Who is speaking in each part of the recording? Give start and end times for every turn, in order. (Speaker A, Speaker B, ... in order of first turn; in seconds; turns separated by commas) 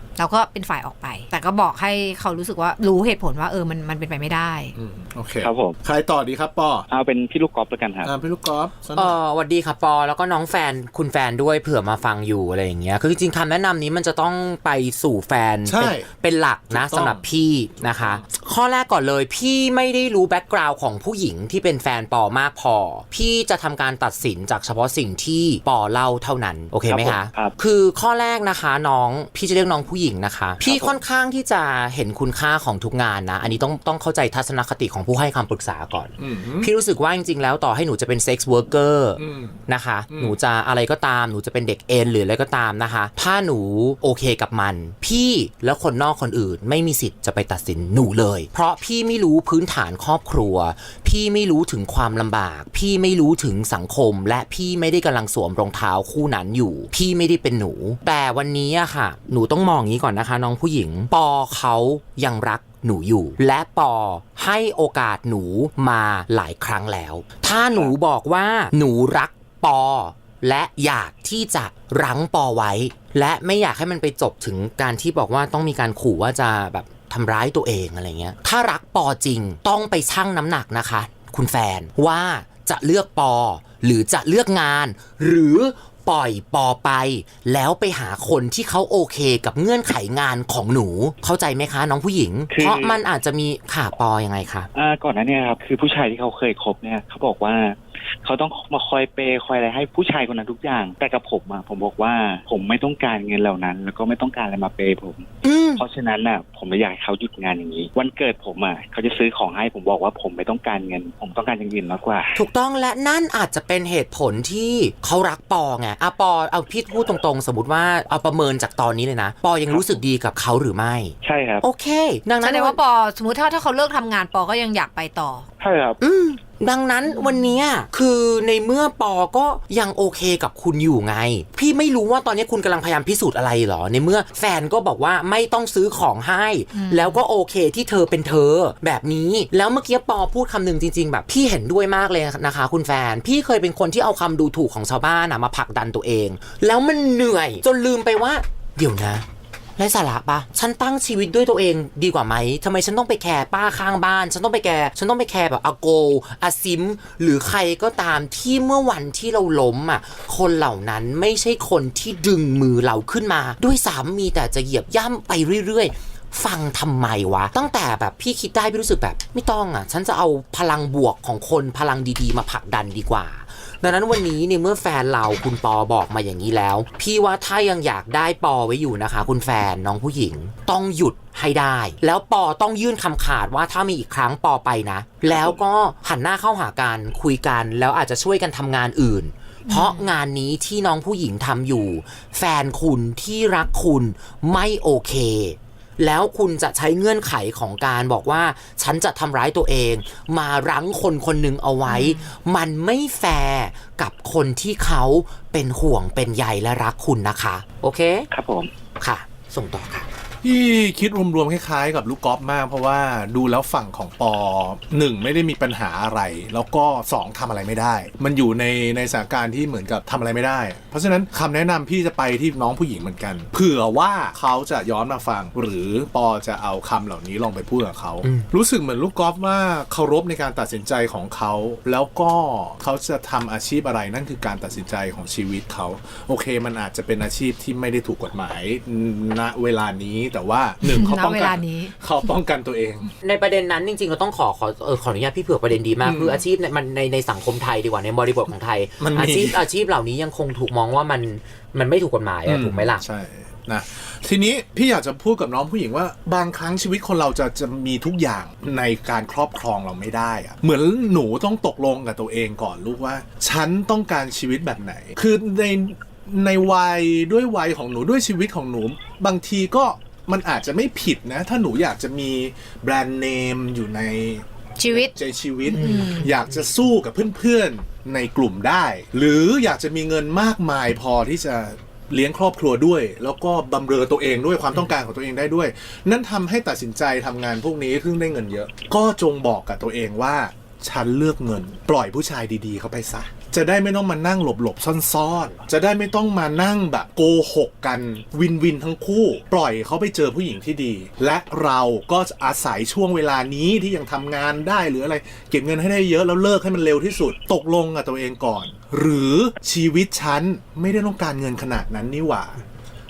Speaker A: 0.2-4.7, Speaker B: 4.8-6.9, Speaker C: 5.4-5.8, Speaker C: 6.9-8.1, Speaker B: 8.0-9.2, Speaker D: 9.0-94.7, Speaker B: 15.7-16.1, Speaker B: 16.7-17.2, Speaker B: 17.8-18.2, Speaker C: 26.9-27.5, Speaker C: 30.7-30.9, Speaker B: 36.2-36.7, Speaker B: 39.2-40.4, Speaker C: 92.5-93.0, Speaker C: 94.8-112.4, Speaker D: 105.4-105.8, Speaker D: 112.4-122.8, Speaker B: 119.7-120.0, Speaker C: 121.2-121.7, Speaker A: 122.4-125.5, Speaker C: 125.6-126.0, Speaker D: 126.0-149.2, Speaker A: 127.1-127.6, Speaker A: 136.7-137.2, Speaker D: 149.8-208.3, Speaker B: 185.3-185.6, Speaker A: 189.7-190.1, Speaker A: 201.9-202.3, Speaker C: 208.3-208.7, Speaker D: 209.0-210.1, Speaker B: 210.4-243.1, Speaker A: 240.8-241.9, Speaker D: 243.2-253.0, Speaker B: 246.0-246.4, Speaker B: 249.0-249.7, Speaker B: 252.5-312.6, Speaker A: 274.8-275.1, Speaker A: 275.7-276.3, Speaker D: 275.7-276.3